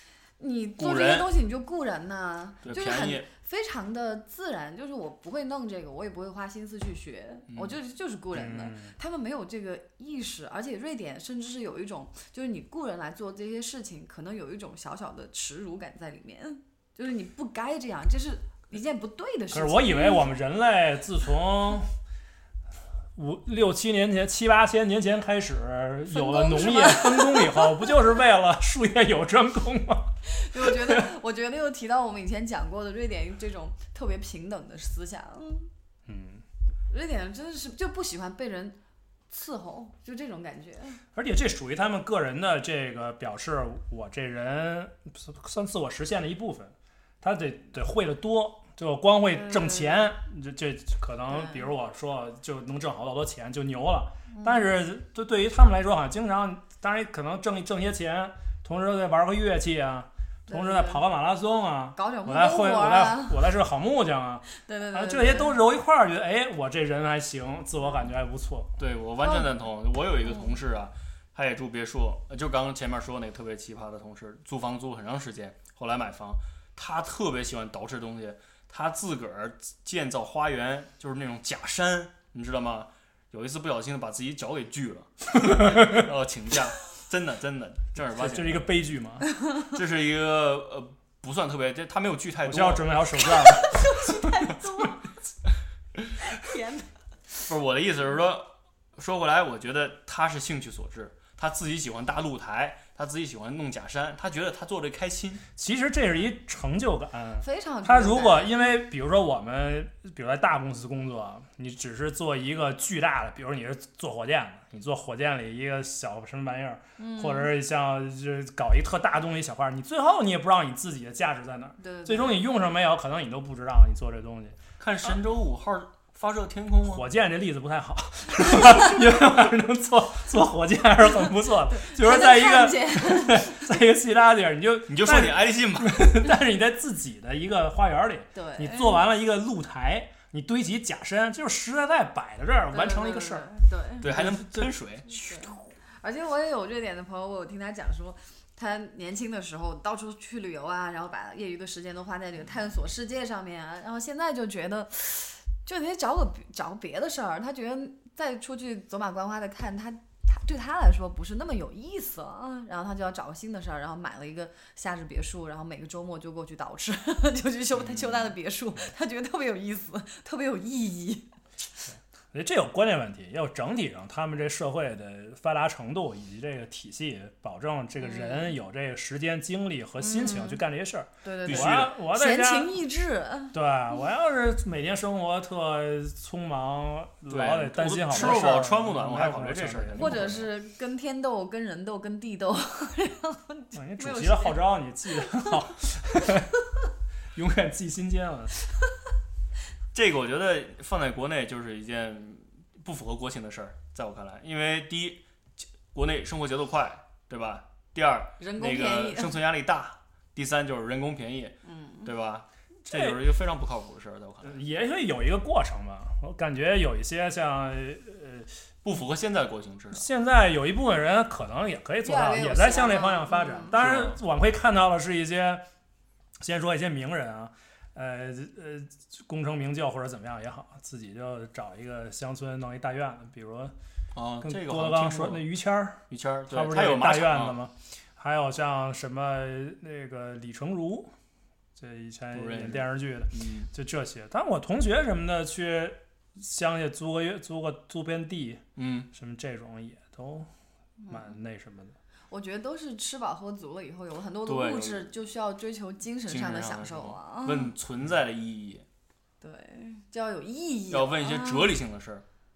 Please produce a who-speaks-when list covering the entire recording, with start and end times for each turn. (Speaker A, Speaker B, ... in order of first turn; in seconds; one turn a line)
Speaker A: 0.4-20.3
Speaker B: 0.8-1.3
Speaker B: 2.6-3.3
Speaker B: 7.5-7.8
Speaker C: 8.3-8.9
Speaker C: 19.5-21.9
Speaker C: 23.1-31.1
Speaker A: 26.1-27.9
Speaker A: 30.2-35.7
Speaker C: 36.1-36.4
Speaker A: 36.9-38.8
Speaker A: 39.3-41.0
Speaker C: 41.1-68.7
Speaker A: 49.3-50.1
Speaker A: 51.3-51.6
Speaker A: 54.3-54.7
Speaker A: 60.5-61.0
Speaker A: 62.0-63.4
Speaker A: 64.5-65.6
Speaker B: 68.8-88.7
Speaker A: 69.2-69.6
Speaker C: 85.4-86.1
Speaker C: 88.0-89.3
Speaker A: 89.4-89.7
Speaker B: 89.7-93.0
Speaker C: 92.4-94.9
Speaker A: 93.5-95.0
Speaker A: 96.2-96.9
Speaker B: 97.5-105.4
Speaker C: 105.6-124.6
Speaker A: 107.4-108.5
Speaker A: 117.0-117.5
Speaker A: 121.8-122.4
Speaker B: 124.8-127.0
Speaker C: 126.9-143.5
Speaker A: 131.7-133.7
Speaker B: 134.9-136.2
Speaker A: 138.3-139.0
Speaker A: 142.7-144.1
Speaker B: 144.0-145.6
Speaker C: 144.0-144.7
Speaker A: 145.1-171.3
Speaker B: 167.8-168.3
Speaker C: 172.3-182.8
Speaker A: 178.0-178.5
Speaker A: 180.0-180.6
Speaker A: 181.2-183.6
Speaker B: 181.4-181.9
Speaker C: 183.5-190.4
Speaker B: 187.3-190.4
Speaker A: 190.0-195.5
Speaker C: 193.7-196.6
Speaker C: 197.3-198.5
Speaker B: 199.9-214.6
Speaker A: 208.4-209.4
Speaker A: 211.6-212.1
Speaker C: 212.9-213.2
Speaker C: 214.4-218.6
Speaker B: 218.8-220.0
Speaker C: 219.9-225.6
Speaker A: 222.0-223.7
Speaker B: 223.7-224.2
Speaker C: 226.4-233.7
Speaker B: 234.1-235.5
Speaker C: 234.4-241.1
Speaker B: 236.1-237.6
Speaker C: 241.8-250.5
Speaker B: 242.3-243.7
Speaker B: 248.8-249.1
Speaker A: 251.0-251.3
Speaker C: 251.1-251.9
Speaker A: 252.3-257.7
Speaker B: 254.4-255.1
Speaker B: 256.3-258.8
Speaker A: 259.4-261.8
Speaker B: 260.9-262.2